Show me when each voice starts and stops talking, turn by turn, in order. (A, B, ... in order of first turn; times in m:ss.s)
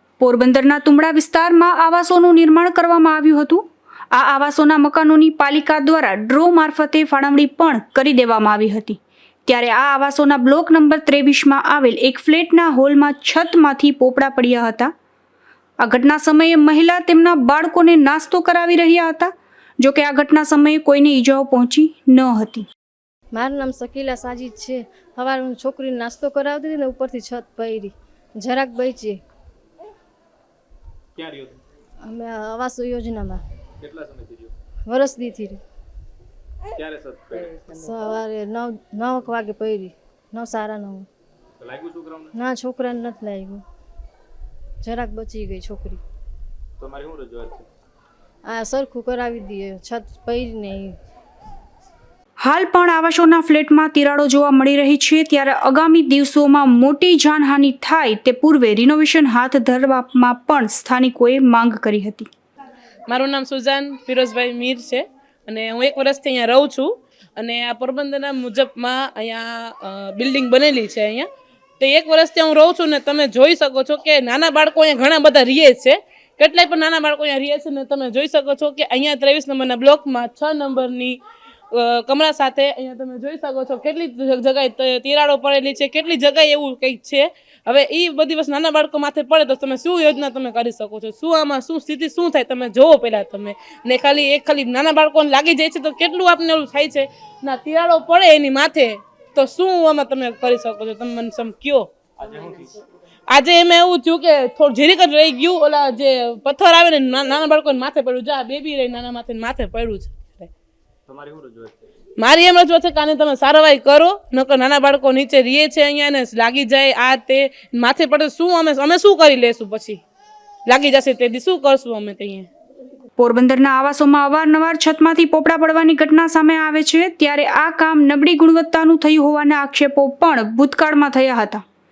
0:00.2-0:14.9 A
0:15.8-0:22.6 A
0:23.3-0:29.2 B
0:31.2-0:31.6 C
0:32.0-0:33.4 B
0:33.8-0:34.5 C
0:34.9-0:35.6 B
0:36.7-0:37.6 C
0:37.7-0:41.1 B
0:41.6-0:42.3 C
0:42.3-0:43.6 B
0:44.8-0:46.0 B
0:46.8-0:47.7 C
0:48.4-0:51.0 B
0:52.4-1:02.3 A
1:03.1-1:11.3 D
1:11.8-1:21.2 D
1:21.7-1:41.9 D
1:42.2-1:42.7 C
1:43.3-1:50.5 D
1:51.1-1:51.9 C
1:52.2-2:00.0 D
2:00.6-2:02.5 D
2:03.2-2:11.6 A